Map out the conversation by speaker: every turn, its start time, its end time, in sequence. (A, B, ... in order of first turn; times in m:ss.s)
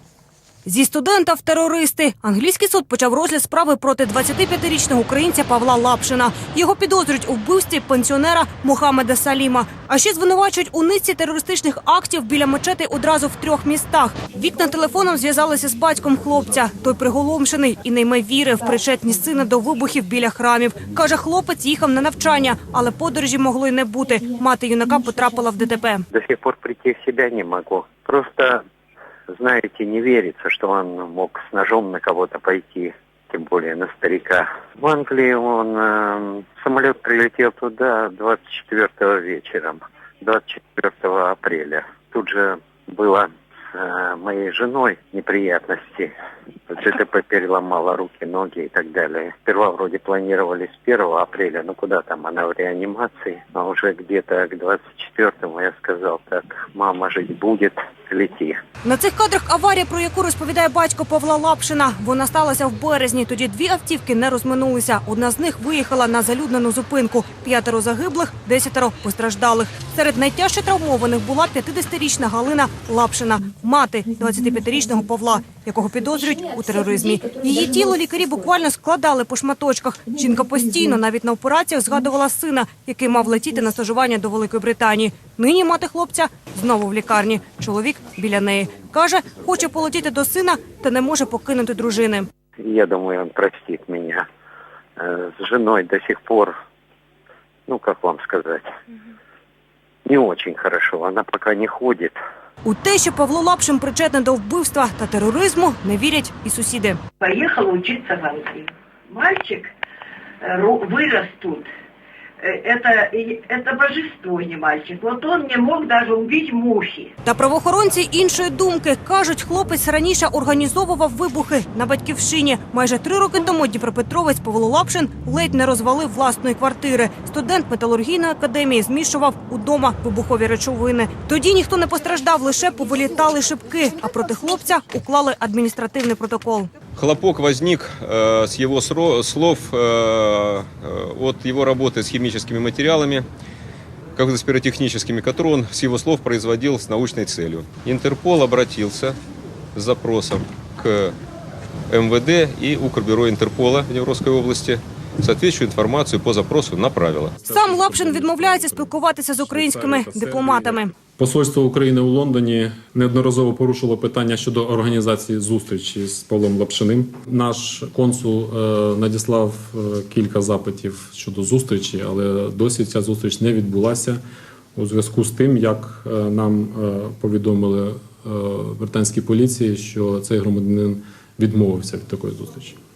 0:00.7-0:26.0 A
0:26.1-0:28.6 B
0:29.3-0:46.1 B
0:46.7-0:58.6 B
0:58.8-1:32.3 A
1:32.6-1:34.2 B
1:35.0-1:36.6 B
1:37.7-1:38.7 B
1:40.1-1:42.2 B
1:42.6-1:47.0 A
1:47.2-1:49.7 C
1:50.4-1:51.7 C
1:52.4-1:57.1 C
1:57.2-2:16.7 A
2:17.0-2:23.2 D
2:24.2-2:29.2 D
2:29.8-2:31.2 D
2:31.9-2:37.3 D
2:37.4-2:54.2 E
2:37.5-2:40.9 A
2:54.8-3:02.8 E